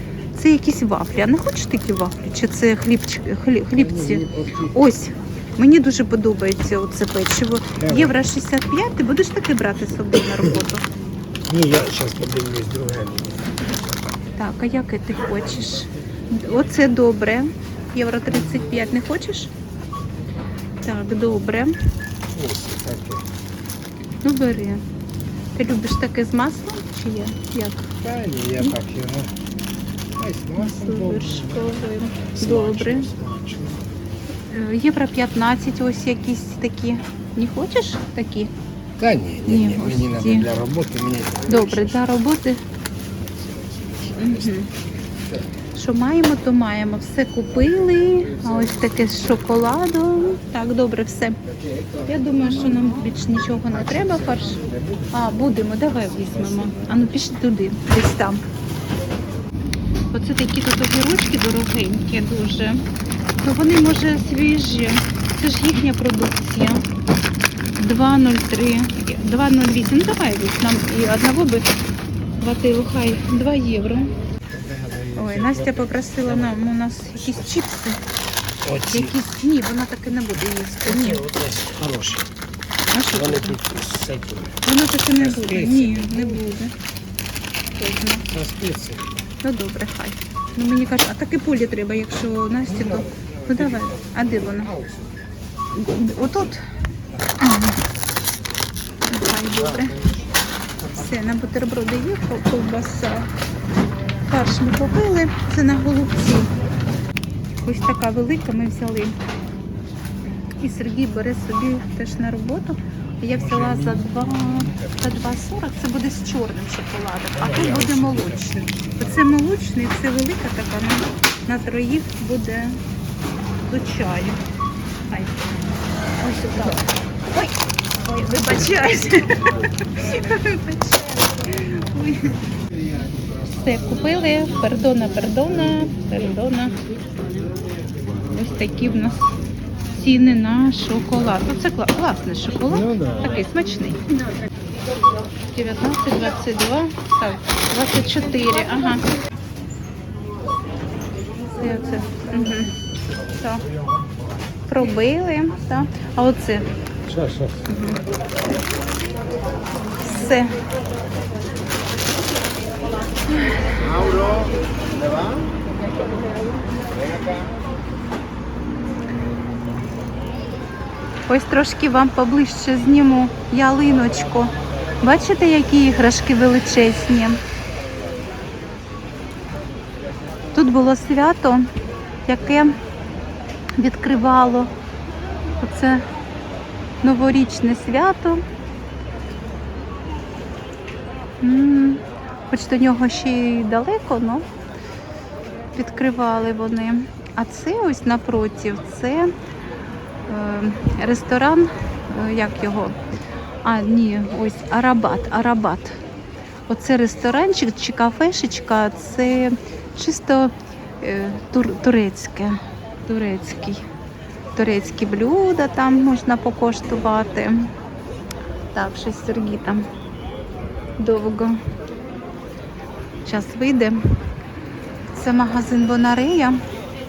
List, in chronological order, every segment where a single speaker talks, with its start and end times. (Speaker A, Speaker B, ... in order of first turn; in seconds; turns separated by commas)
Speaker A: 0.3-10.8, Speaker B: 3.8-4.8, Speaker B: 7.8-8.2, Speaker B: 11.5-13.5, Speaker A: 14.4-19.5, Speaker A: 20.8-21.7, Speaker B: 22.3-23.3, Speaker A: 24.2-24.8, Speaker A: 25.6-27.9, Speaker B: 28.0-29.3, Speaker B: 30.2-33.9, Speaker A: 30.6-33.1, Speaker A: 34.5-38.5, Speaker B: 39.0-42.0, Speaker A: 39.5-40.5, Speaker A: 41.5-42.6, Speaker B: 43.2-44.7, Speaker A: 44.2-44.7, Speaker A: 45.8-51.4, Speaker B: 47.7-48.9, Speaker B: 51.5-52.9, Speaker A: 52.1-58.4, Speaker B: 53.7-57.0, Speaker A: 60.1-62.8, Speaker A: 63.4-66.8, Speaker A: 67.8-71.7, Speaker A: 72.4-74.1, Speaker B: 74.5-77.5, Speaker A: 75.2-78.0, Speaker B: 78.6-79.2, Speaker A: 78.9-81.2, Speaker B: 80.8-82.3, Speaker A: 82.9-83.6, Speaker B: 83.1-84.6, Speaker A: 84.6-86.7, Speaker B: 85.2-86.5, Speaker A: 87.8-88.3, Speaker B: 88.3-89.0, Speaker A: 89.4-94.8, Speaker B: 92.7-95.1, Speaker A: 95.7-96.6, Speaker A: 97.4-97.8, Speaker A: 99.0-99.9, Speaker B: 99.5-101.2, Speaker A: 100.9-103.3, Speaker A: 104.2-106.5, Speaker A: 107.6-109.2, Speaker A: 110.6-122.8, Speaker B: 113.3-115.4, Speaker B: 117.4-119.4, Speaker A: 123.7-124.4, Speaker A: 125.1-125.4, Speaker A: 126.2-132.4, Speaker A: 133.5-136.8, Speaker A: 138.3-139.3, Speaker A: 139.9-144.0, Speaker B: 142.6-143.4, Speaker A: 145.5-149.1, Speaker A: 151.5-152.7, Speaker A: 153.4-153.7, Speaker A: 154.7-156.7, Speaker B: 157.1-157.7, Speaker A: 157.7-158.0, Speaker A: 160.0-160.6, Speaker A: 163.4-163.7, Speaker B: 164.0-164.5, Speaker A: 171.3-177.4, Speaker A: 180.5-181.7, Speaker A: 182.3-182.8, Speaker A: 183.8-184.7, Speaker A: 185.6-186.0, Speaker A: 187.0-188.4, Speaker A: 191.4-194.5, Speaker A: 195.8-199.3, Speaker A: 200.3-203.0, Speaker A: 203.6-206.0, Speaker A: 206.7-213.8, Speaker A: 214.6-217.7, Speaker A: 218.7-219.8, Speaker A: 221.0-221.6, Speaker A: 223.2-224.0, Speaker A: 225.1-226.6